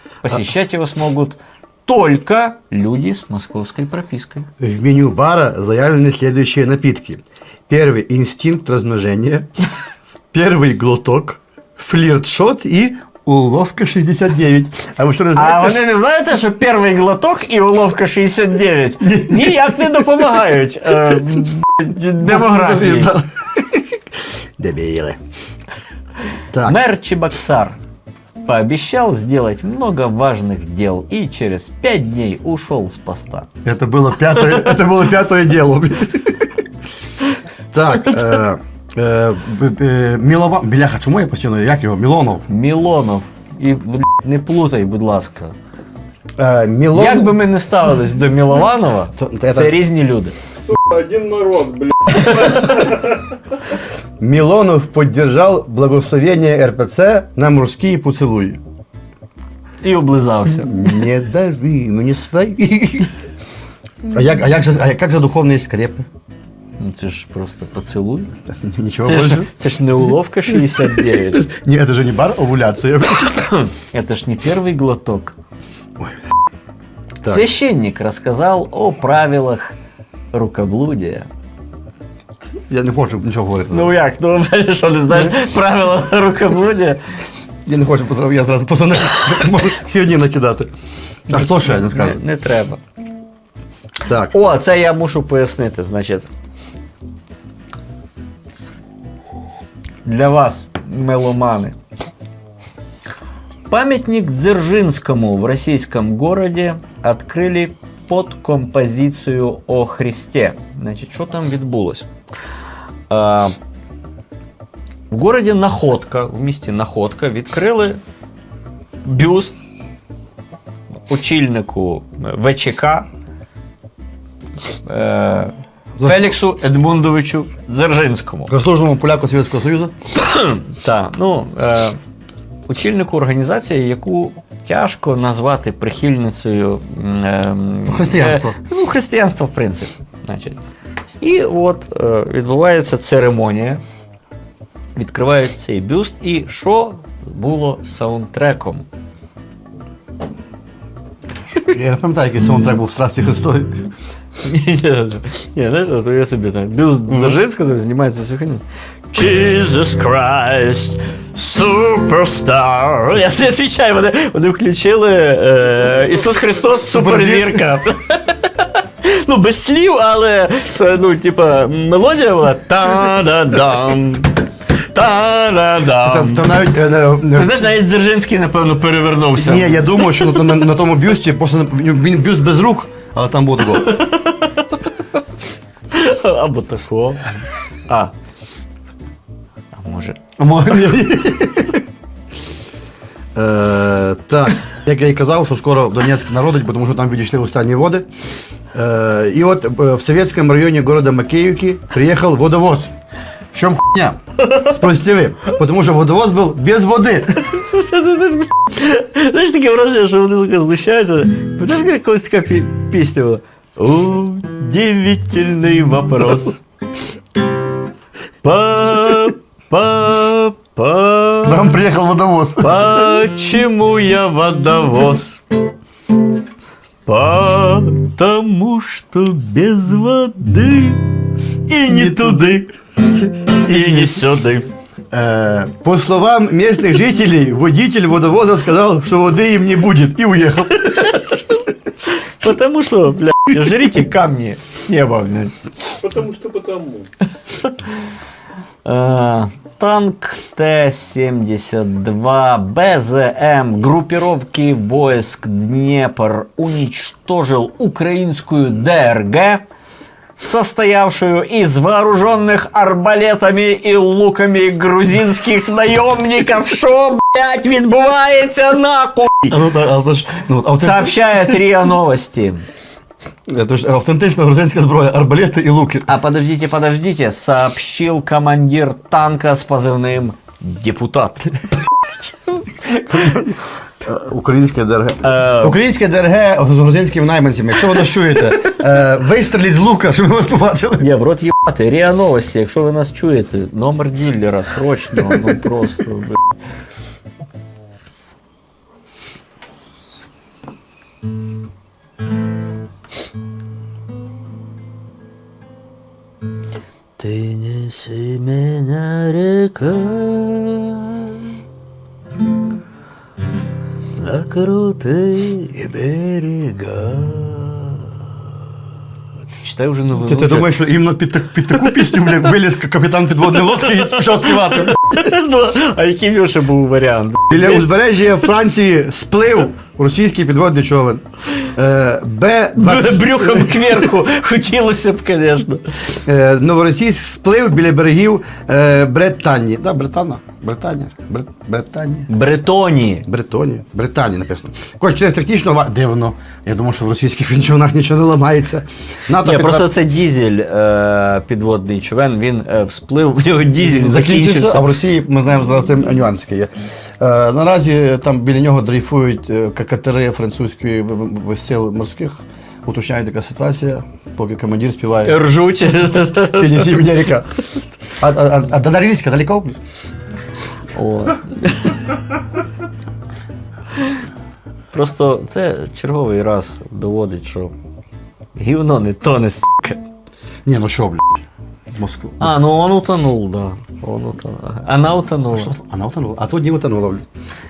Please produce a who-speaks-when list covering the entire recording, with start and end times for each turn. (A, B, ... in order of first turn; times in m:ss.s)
0:00.2-0:04.5 A
0:04.6-0:09.5 B
0:10.3-0:15.8 B
0:15.3-0:23.1 A
0:19.0-0:19.8 B
0:22.2-0:24.0 B
0:24.6-0:25.2 B
0:26.5-0:26.8 B
0:26.6-0:27.8 A
0:28.4-0:33.5 A
0:33.6-0:36.5 B
0:37.7-0:42.4 B
0:42.5-0:45.5 A
0:46.4-0:47.4 B
0:46.9-0:50.3 A
0:49.2-0:49.7 B
0:50.6-0:53.2 C
0:52.2-0:52.8 A
0:54.2-0:58.6 B
0:59.8-1:00.7 A
1:00.6-1:03.1 B
1:04.1-1:06.0 B
1:06.8-1:08.3 A
1:08.5-1:09.5 B
1:09.0-1:11.5 A
1:11.2-1:13.4 B
1:13.2-1:15.3 A
1:17.2-1:19.7 A
1:20.3-1:21.3 A
1:22.7-1:24.0 B
1:23.7-1:27.0 A
1:27.6-1:30.7 B
1:31.3-1:32.2 B
1:31.3-1:32.8 A
1:34.0-1:34.3 B
1:34.3-1:36.3 A
1:40.0-1:41.7 A
1:43.7-1:52.1 A
1:53.1-1:53.5 A
1:55.1-1:58.0 A
1:59.0-1:59.6 A
2:01.1-2:03.1 A
2:04.8-2:08.5 A
2:06.0-2:06.3 B
2:08.5-2:09.9 B
2:10.2-2:12.0 A
2:12.7-2:20.6 A
2:17.9-2:18.6 B
2:21.2-2:23.8 A
2:25.0-2:28.8 A
2:31.5-2:33.8 B
2:34.4-2:54.3 A
2:37.1-2:37.4 B
2:46.9-2:47.6 B
2:54.9-2:56.5 A
2:56.0-2:57.6 B
2:57.3-3:00.5 A
2:59.4-3:04.0 B
3:03.8-3:04.9 A
3:05.9-3:08.1 A
3:09.7-3:10.2 A
3:10.4-3:11.8 B
3:13.3-3:18.0 B
3:18.7-3:22.9 B
3:23.5-3:27.5 B
3:24.4-3:24.8 A
3:27.4-3:36.6 A
3:38.4-3:41.7 A
3:41.4-3:43.0 B
3:42.6-3:45.4 A
3:47.1-3:51.1 A
3:51.7-3:52.7 A
3:51.9-3:52.6 B
3:53.6-3:54.7 A
3:53.7-3:54.2 B
3:55.1-4:01.2 B
4:02.1-4:05.6 A
4:06.0-4:07.1 C
4:08.8-4:19.6 A
4:20.4-4:29.6 A
4:29.5-4:31.6 B
4:30.8-4:32.6 A
4:33.5-4:36.1 B
4:36.0-4:41.6 A
4:42.8-4:51.0 B
4:45.2-4:45.8 A
4:51.0-4:56.5 A
5:07.2-5:11.5 A
5:14.2-5:18.1 A
5:19.5-5:20.7 A
5:20.2-5:25.0 B
5:21.7-5:22.5 A
5:23.7-5:27.8 A
5:27.5-5:34.1 B
5:32.8-5:36.0 A
5:36.2-5:42.3 B
5:42.3-5:43.3 A
5:43.3-5:49.9 B
5:49.4-5:54.9 A
5:53.8-6:05.4 B
6:05.2-6:07.2 A
6:06.1-6:07.5 B
6:08.2-6:09.8 B
6:10.9-6:12.2 A
6:14.9-6:17.7 A
6:18.6-6:20.0 A
6:20.6-6:22.6 B
6:22.4-6:25.7 A
6:25.5-6:27.2 B